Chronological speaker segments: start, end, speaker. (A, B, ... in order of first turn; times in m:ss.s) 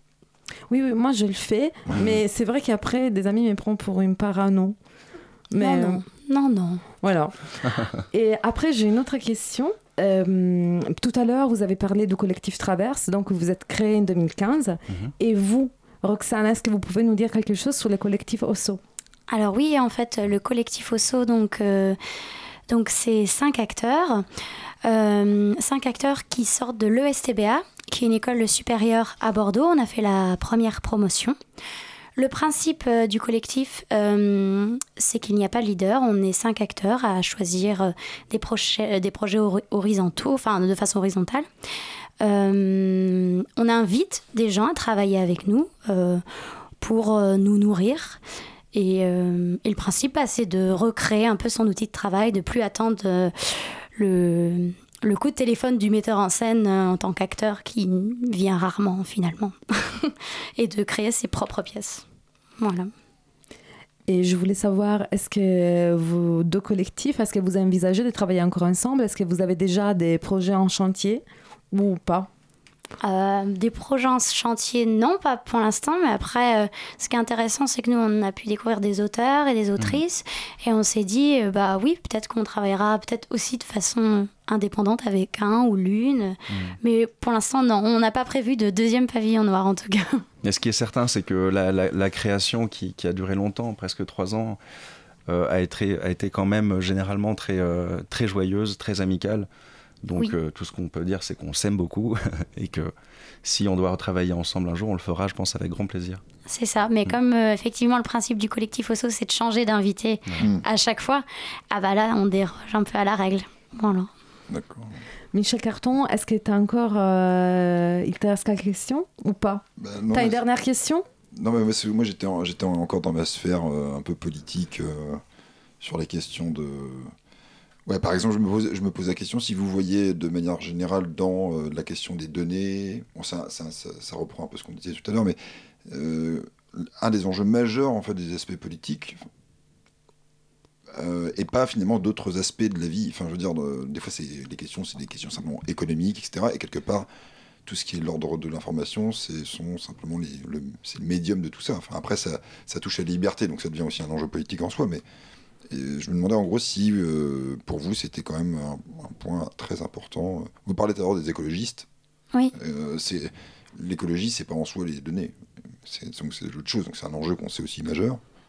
0:00.7-0:04.8 A
0:02.0-0:02.2 B
0:05.5-0:06.0 A
0:05.6-0:06.8 C
0:07.0-0:18.8 A
0:19.3-0:22.0 C
0:22.7-0:24.3 C
0:24.8-0:31.4 C
0:32.2-0:41.5 C
0:42.2-0:46.2 C
0:46.8-0:48.2 C
0:48.7-1:02.0 C
1:02.6-1:02.9 C
1:04.1-1:12.3 A
1:13.0-1:30.3 C
1:26.5-1:26.8 B
1:30.4-1:34.6 B
1:35.3-1:39.5 B
1:40.0-1:42.9 B
1:43.4-1:46.2 B
1:46.5-1:54.1 C
1:54.5-1:55.0 D
1:55.3-2:01.0 A
1:59.8-2:00.4 D
2:01.3-2:05.2 D
2:05.8-2:07.1 D
2:07.9-2:19.2 D
2:20.9-2:27.1 D
2:27.7-2:35.0 D
2:35.7-2:41.9 D
2:42.5-2:48.2 D